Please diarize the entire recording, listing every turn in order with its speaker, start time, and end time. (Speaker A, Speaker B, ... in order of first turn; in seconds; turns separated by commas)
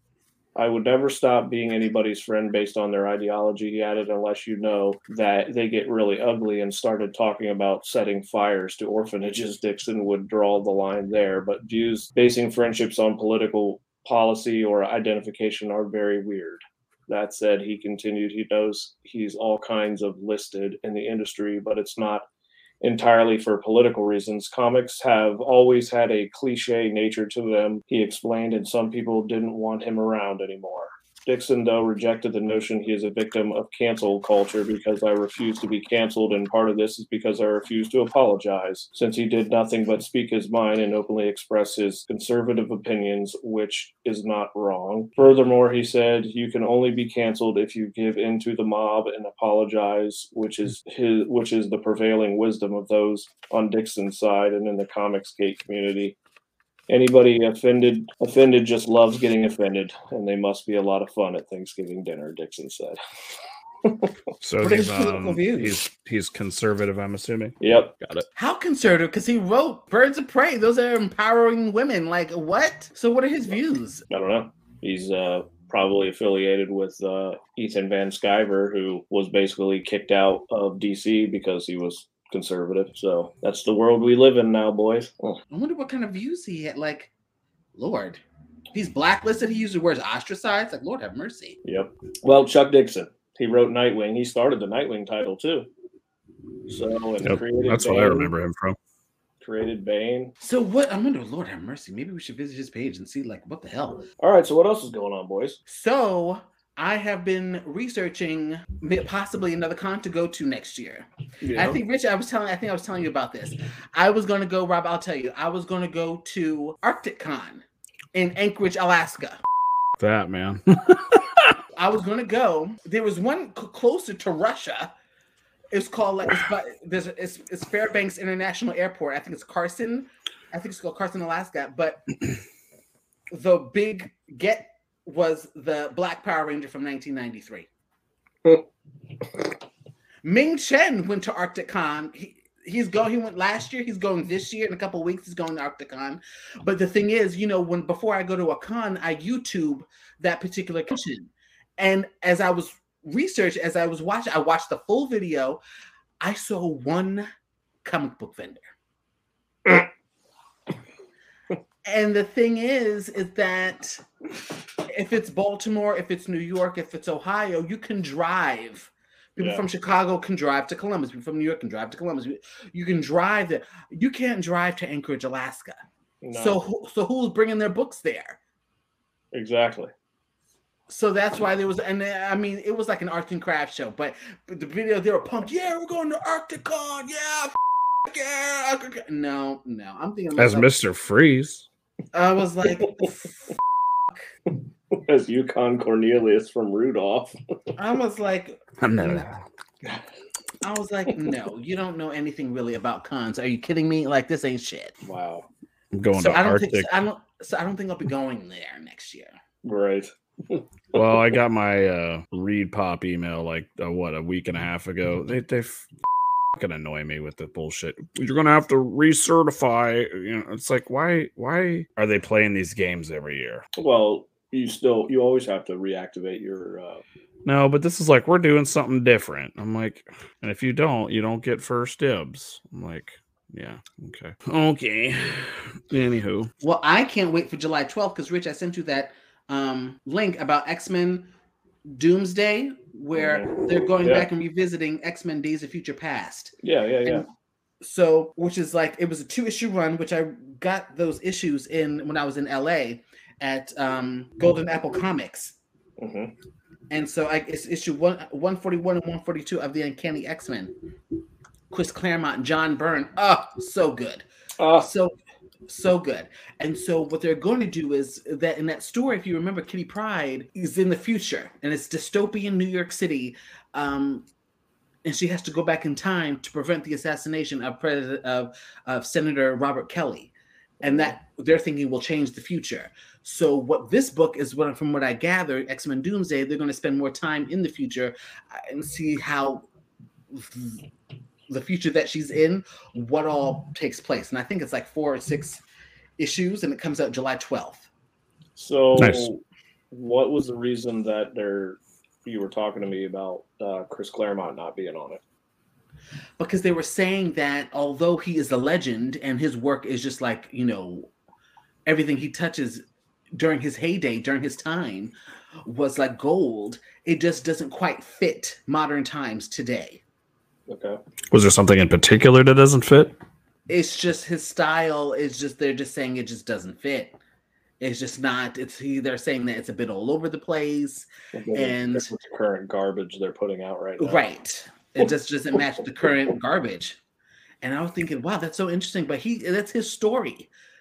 Speaker A: 0.5-22.2, Speaker A: 22.8-56.1, Speaker A: 56.9-63.0, Speaker A: 63.8-64.1, Speaker B: 64.4-68.3, Speaker C: 64.6-65.8, Speaker A: 67.6-67.9, Speaker C: 68.3-74.0, Speaker A: 74.1-85.4, Speaker C: 85.5-87.1, Speaker C: 87.8-88.2, Speaker C: 88.7-91.6, Speaker A: 91.6-95.7, Speaker A: 96.7-98.3, Speaker B: 97.2-98.8, Speaker A: 99.4-100.3, Speaker C: 100.4-104.0, Speaker A: 104.2-105.6, Speaker C: 105.7-119.4, Speaker A: 111.4-111.8, Speaker B: 120.0-121.5, Speaker C: 121.7-124.9, Speaker C: 125.7-132.2, Speaker C: 133.3-137.7, Speaker C: 140.2-155.6, Speaker C: 156.2-157.3, Speaker C: 157.8-158.7, Speaker C: 161.8-164.0, Speaker C: 164.8-175.8, Speaker A: 169.4-169.6, Speaker A: 176.2-176.6, Speaker C: 176.3-178.4, Speaker A: 179.3-179.9, Speaker C: 180.9-190.8, Speaker B: 190.3-191.7, Speaker C: 192.1-193.3, Speaker A: 194.9-197.3, Speaker C: 197.8-199.3, Speaker B: 198.8-199.4, Speaker C: 200.6-204.9, Speaker A: 205.0-205.5, Speaker B: 205.9-206.9, Speaker C: 206.1-209.3, Speaker A: 209.6-211.1, Speaker B: 210.9-215.9, Speaker B: 216.6-223.6, Speaker A: 223.8-227.0, Speaker B: 227.4-236.5, Speaker C: 236.6-241.3, Speaker C: 241.9-246.5, Speaker A: 243.1-244.3, Speaker A: 246.6-247.2, Speaker C: 247.8-255.5, Speaker A: 256.0-256.3, Speaker C: 256.9-260.7, Speaker C: 261.7-264.2, Speaker A: 264.6-264.9, Speaker C: 264.8-265.1, Speaker C: 265.7-274.3, Speaker C: 275.0-289.6, Speaker A: 280.8-281.1, Speaker C: 290.3-290.9, Speaker C: 291.5-295.6, Speaker C: 296.2-297.9, Speaker A: 298.6-299.4, Speaker B: 299.0-299.3, Speaker A: 299.9-305.2, Speaker C: 306.4-311.1, Speaker C: 311.9-312.8, Speaker C: 313.3-315.1, Speaker C: 315.6-320.0, Speaker A: 320.7-321.0, Speaker B: 321.3-323.1, Speaker C: 323.7-327.1, Speaker C: 327.8-332.1, Speaker A: 331.3-334.2, Speaker C: 334.0-337.0, Speaker C: 337.6-340.5